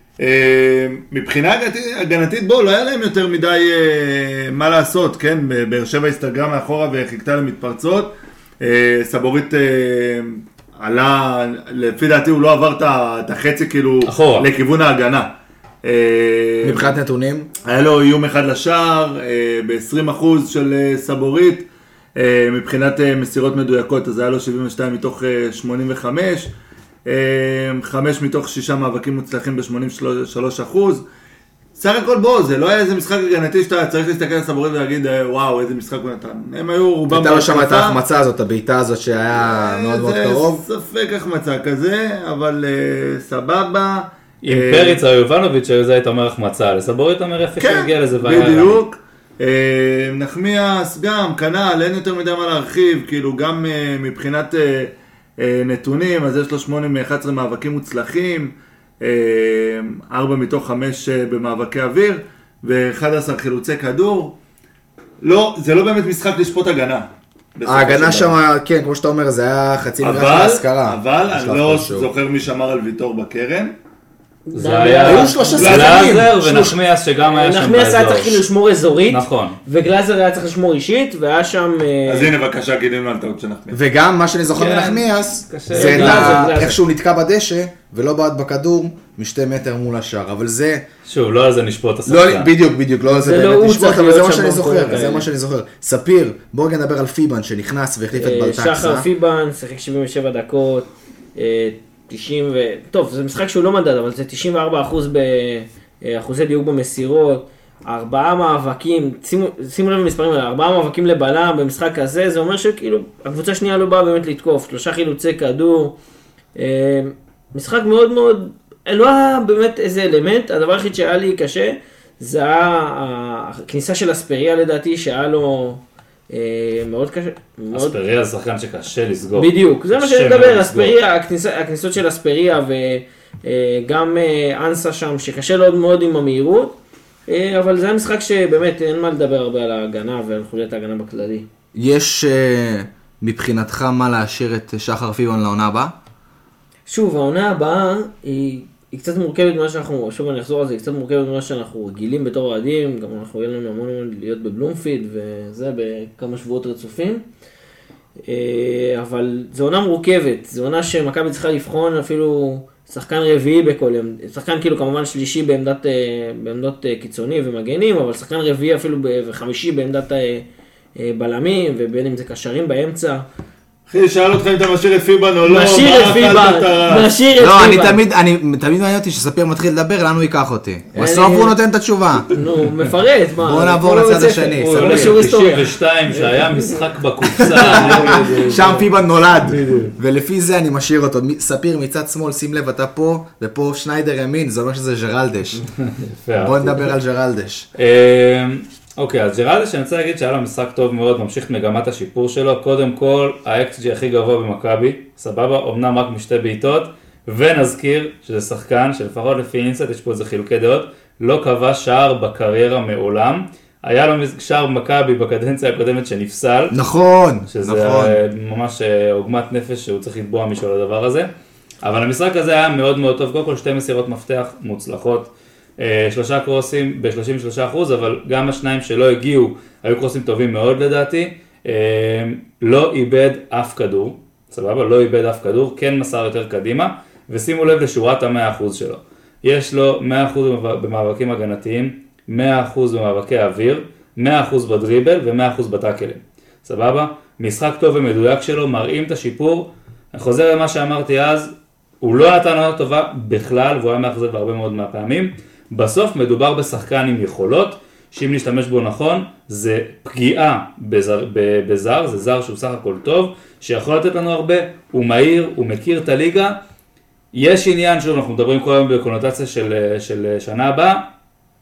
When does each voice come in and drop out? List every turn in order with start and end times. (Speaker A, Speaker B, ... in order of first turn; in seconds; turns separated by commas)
Speaker A: 0.2-15.3, Speaker B: 14.1-14.5, Speaker A: 15.8-16.9, Speaker C: 16.6-17.5, Speaker A: 17.6-26.5, Speaker A: 27.1-31.0, Speaker A: 31.8-38.0, Speaker C: 37.1-40.6, Speaker A: 39.4-45.0, Speaker B: 44.4-48.8, Speaker A: 47.6-64.3, Speaker A: 65.2-68.3, Speaker C: 67.7-72.1, Speaker A: 70.0-73.7, Speaker D: 74.5-75.8, Speaker B: 74.5-78.4, Speaker C: 75.0-76.8, Speaker A: 75.6-76.2, Speaker D: 77.3-82.3, Speaker B: 79.1-79.6, Speaker A: 82.1-83.8, Speaker C: 83.7-90.8, Speaker B: 84.6-86.5, Speaker D: 85.7-86.8, Speaker B: 91.1-92.5, Speaker C: 92.1-99.1, Speaker D: 93.2-95.2, Speaker D: 98.1-115.9, Speaker D: 116.6-128.0, Speaker B: 127.7-131.0, Speaker D: 129.4-136.8, Speaker D: 137.3-141.4, Speaker C: 141.7-145.9, Speaker D: 146.9-157.2, Speaker D: 158.2-170.4, Speaker D: 170.9-173.2, Speaker A: 173.9-177.1, Speaker D: 175.4-178.0, Speaker C: 177.4-182.3, Speaker D: 180.9-181.5, Speaker D: 182.3-186.8, Speaker C: 183.4-185.2, Speaker B: 184.6-188.8, Speaker C: 187.4-195.7, Speaker D: 187.4-188.8, Speaker B: 189.4-189.9, Speaker B: 195.9-196.9, Speaker C: 196.3-197.7, Speaker B: 197.8-216.8, Speaker C: 216.7-218.2, Speaker B: 217.5-221.3, Speaker B: 221.8-251.5, Speaker B: 252.0-266.6, Speaker B: 267.3-271.1